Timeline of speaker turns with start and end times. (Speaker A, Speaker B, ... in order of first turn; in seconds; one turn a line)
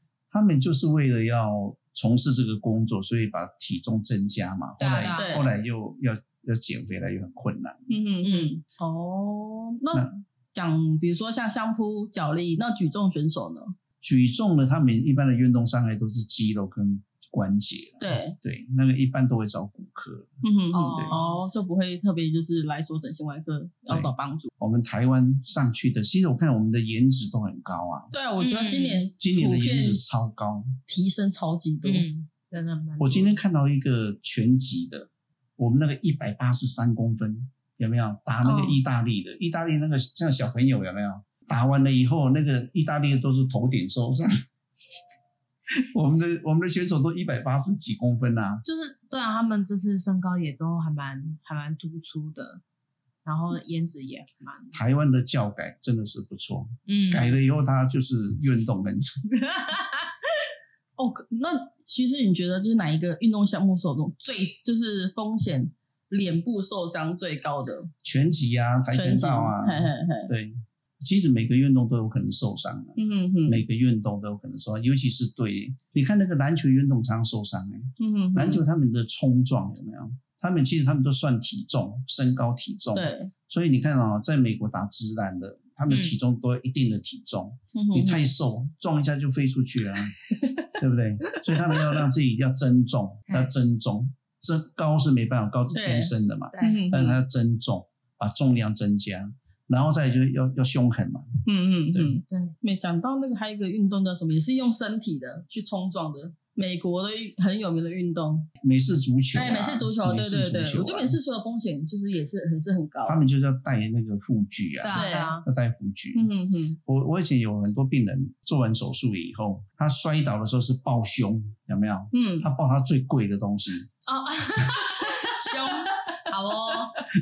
Speaker A: 0.3-7.9
Speaker B: 4.8-5.4
Speaker C: 5.1-5.5
Speaker C: 7.9-13.7
Speaker B: 8.2-8.6
Speaker A: 14.0-20.3
Speaker C: 18.0-18.4
Speaker C: 20.4-24.5
Speaker B: 20.7-21.3
Speaker A: 20.9-21.2
Speaker A: 23.9-28.1
Speaker C: 28.1-30.0
Speaker B: 28.4-29.0
Speaker A: 29.2-30.8
Speaker C: 30.9-32.1
Speaker B: 31.8-33.4
Speaker A: 33.0-44.3
Speaker B: 38.4-38.8
Speaker A: 45.9-48.6
Speaker B: 48.6-52.6
Speaker B: 53.2-54.8
Speaker A: 54.7-59.2
Speaker B: 56.9-57.4
Speaker B: 59.3-60.1
Speaker C: 61.0-67.9
Speaker A: 68.0-101.3
Speaker C: 68.9-70.3
Speaker C: 73.0-73.6
Speaker C: 78.0-78.7
Speaker C: 82.9-83.3
Speaker B: 85.9-86.2
Speaker C: 87.7-88.3
Speaker C: 90.4-90.7
Speaker C: 95.7-97.2
Speaker B: 96.5-96.8
Speaker C: 101.5-108.5
Speaker B: 102.3-102.5
Speaker A: 108.6-111.1
Speaker C: 109.3-113.3
Speaker A: 113.0-116.3
Speaker B: 114.8-115.5
Speaker C: 114.9-115.4
Speaker C: 116.1-116.8
Speaker A: 116.8-123.9
Speaker C: 122.1-122.5
Speaker B: 124.0-127.0